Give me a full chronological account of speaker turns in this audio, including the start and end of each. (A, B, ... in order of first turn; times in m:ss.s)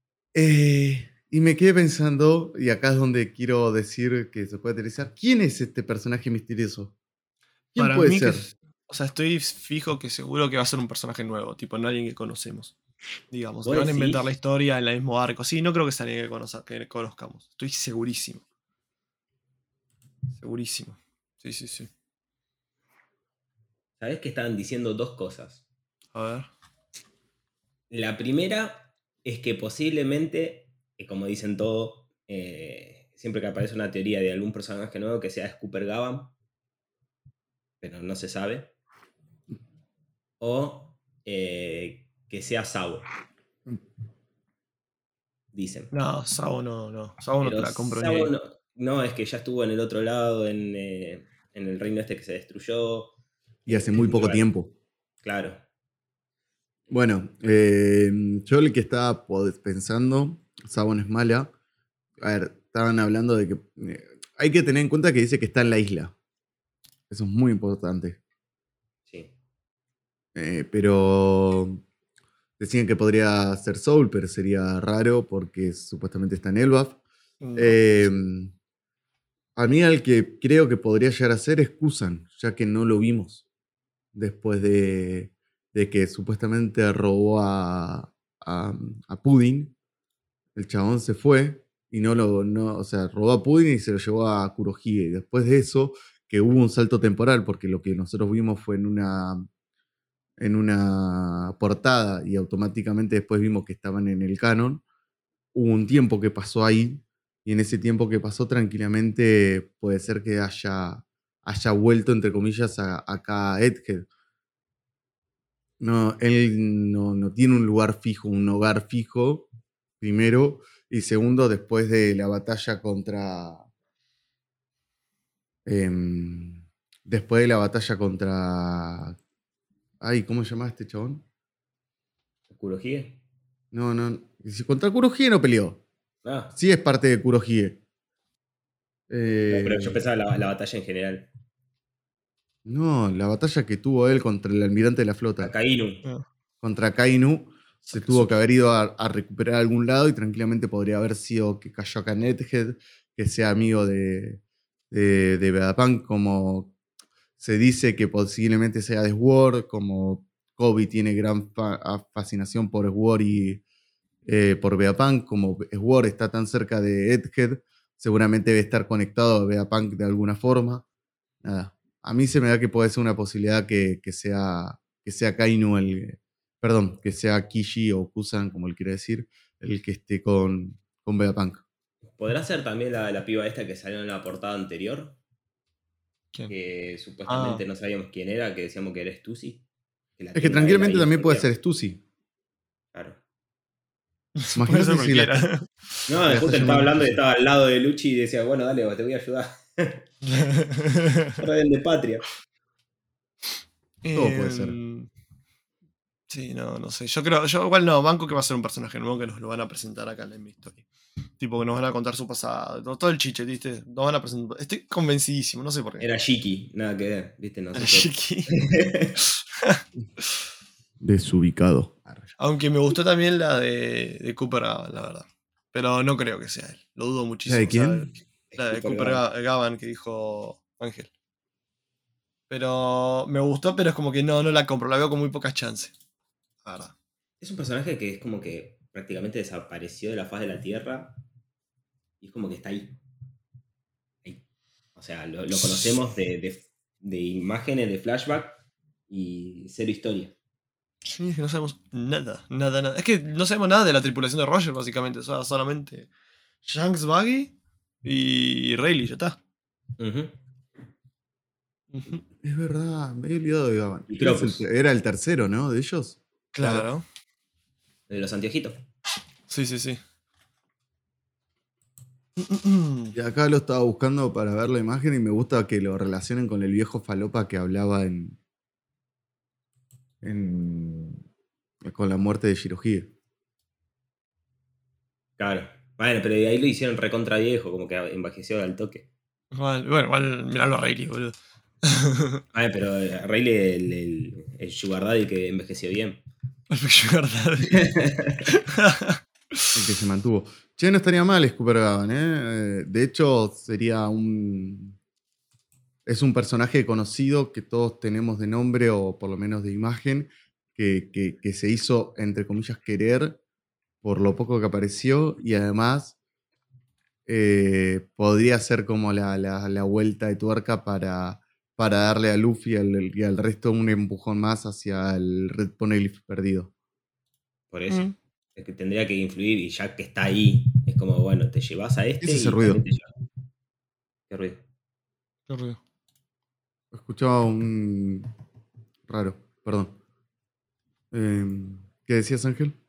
0:00.3-0:06.9 A
0:07.7-0:08.4 A
0:07.8-0:12.7 B
0:13.3-0:18.4 B
0:13.6-0:14.3 C
0:20.3-0:21.9 B
0:24.0-0:25.6 C
0:26.1-0:26.5 B
0:27.9-0:36.3 C
0:37.8-0:38.7 C
0:40.4-0:43.0 C
0:45.5-0:45.9 C
0:45.9-0:48.3 B
0:47.4-0:53.1 C
0:53.6-0:54.4 C
0:53.7-0:54.7 A
0:55.2-0:55.6 C
0:56.9-1:01.5 A
1:02.2-1:06.1 A
1:07.1-1:08.2 A
1:10.3-1:11.8 A
1:12.6-1:17.0 A
1:17.4-1:17.8 B
1:17.6-1:18.5 A
1:19.6-1:23.4 A
1:24.1-1:29.7 A
1:30.5-1:39.5 A
1:40.4-1:44.8 A
1:45.5-1:54.1 A
1:55.8-1:59.5 A
2:00.0-2:03.6 A
2:05.6-2:09.2 A
2:10.0-2:11.2 A
2:12.5-2:13.2 C
2:13.7-2:15.8 A
2:16.2-2:16.5 C
2:16.5-2:17.8 A
2:19.1-2:20.0 A
2:19.5-2:21.3 C
2:22.6-2:25.5 A
2:25.4-2:26.0 C
2:26.6-2:36.7 A
2:27.8-2:28.1 B
2:37.4-2:43.6 A
2:44.2-2:50.8 A
2:51.4-3:01.6 A
3:02.1-3:05.2 C
3:06.5-3:09.6 C
3:07.3-3:07.6 B
3:10.2-3:11.5 C
3:10.3-3:12.0 A
3:12.9-3:13.2 C
3:14.4-3:15.9 B
3:14.5-3:15.5 A
3:16.1-3:20.1 C
3:16.3-3:17.2 A
3:20.2-3:21.3 B
3:21.4-3:22.3 C
3:24.0-3:25.1 B
3:24.1-3:24.8 A
3:26.3-3:30.8 B
3:31.4-3:36.1 B
3:36.0-3:39.2 C
3:37.7-3:38.6 B
3:39.3-3:39.8 B
3:41.0-3:42.3 A
3:42.4-3:51.1 B
3:47.5-3:48.1 A
3:48.5-3:49.2 C
3:52.5-3:55.9 B
3:56.6-3:56.9 B
3:57.4-4:01.2 C
4:02.2-4:03.0 C
4:05.0-4:10.3 C
4:11.0-4:16.1 B
4:16.6-4:17.5 B
4:18.0-4:19.4 B
4:20.0-4:20.4 C
4:21.9-4:22.2 B
4:22.4-4:26.9 A
4:24.1-4:24.6 C
4:26.5-4:27.0 B
4:28.1-4:28.8 C
4:29.5-4:30.0 B
4:32.4-4:33.1 B
4:33.1-4:38.4 A
4:40.2-4:41.2 A
4:41.8-4:43.1 A
4:45.4-4:49.1 C
4:49.5-4:52.4 B
4:52.5-4:56.2 C
4:56.7-4:57.9 B
4:57.7-4:58.5 C
4:58.5-4:59.2 B
4:59.7-5:05.0 A
5:06.0-5:13.4 A
5:14.0-5:16.2 A
5:17.3-5:26.7 A
5:27.7-5:33.1 C
5:32.2-5:32.8 A
5:34.3-5:34.6 C
5:35.5-5:35.8 B
5:36.9-5:38.3 A
5:39.1-5:40.0 A
5:41.1-5:42.8 A